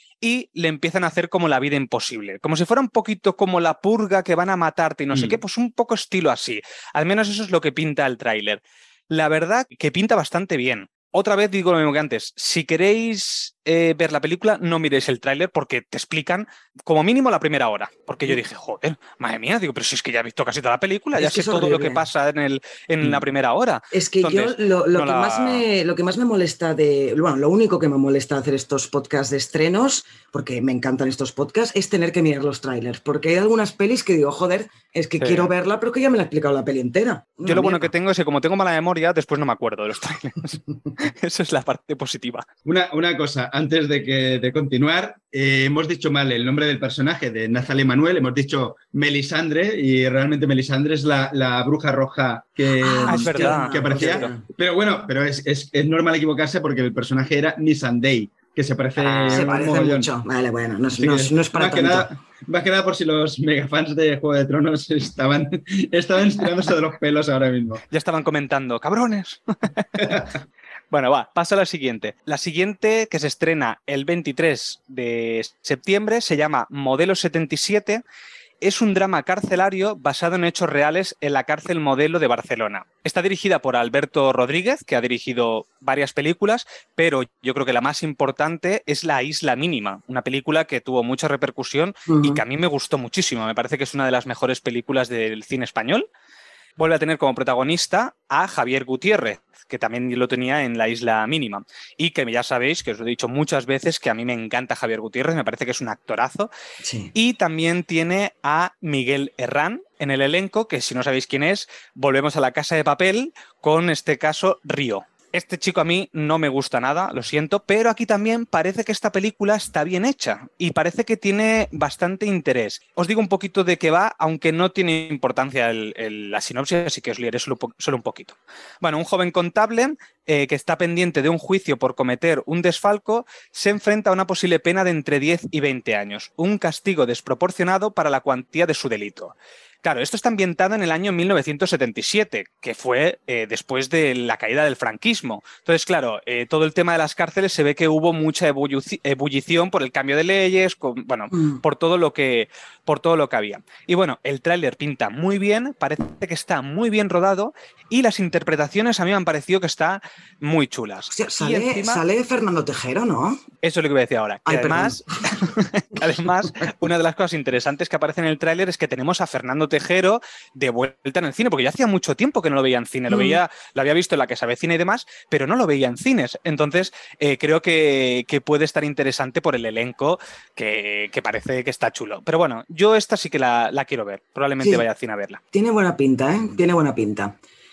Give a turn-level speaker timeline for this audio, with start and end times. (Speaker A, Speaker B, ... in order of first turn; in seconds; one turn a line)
Speaker A: 0.2-25.6
Speaker B: 5.1-5.4
Speaker C: 21.1-22.1
Speaker C: 23.9-37.9
Speaker A: 35.2-35.5
Speaker A: 37.4-42.5
Speaker B: 42.6-60.1
Speaker C: 52.8-54.5
Speaker A: 53.1-54.3
Speaker C: 59.0-62.1
Speaker B: 60.9-67.8
Speaker A: 67.9-70.2
Speaker B: 70.0-70.3
Speaker A: 70.9-78.0
Speaker A: 78.6-96.1
Speaker C: 92.1-92.4
Speaker A: 96.8-106.5
Speaker C: 106.8-107.1
Speaker A: 107.1-162.0
Speaker C: 151.3-151.6
Speaker C: 161.1-163.4
Speaker A: 163.6-185.4
Speaker C: 164.4-165.4
Speaker C: 173.1-173.4
Speaker C: 184.6-184.9
Speaker C: 185.5-187.4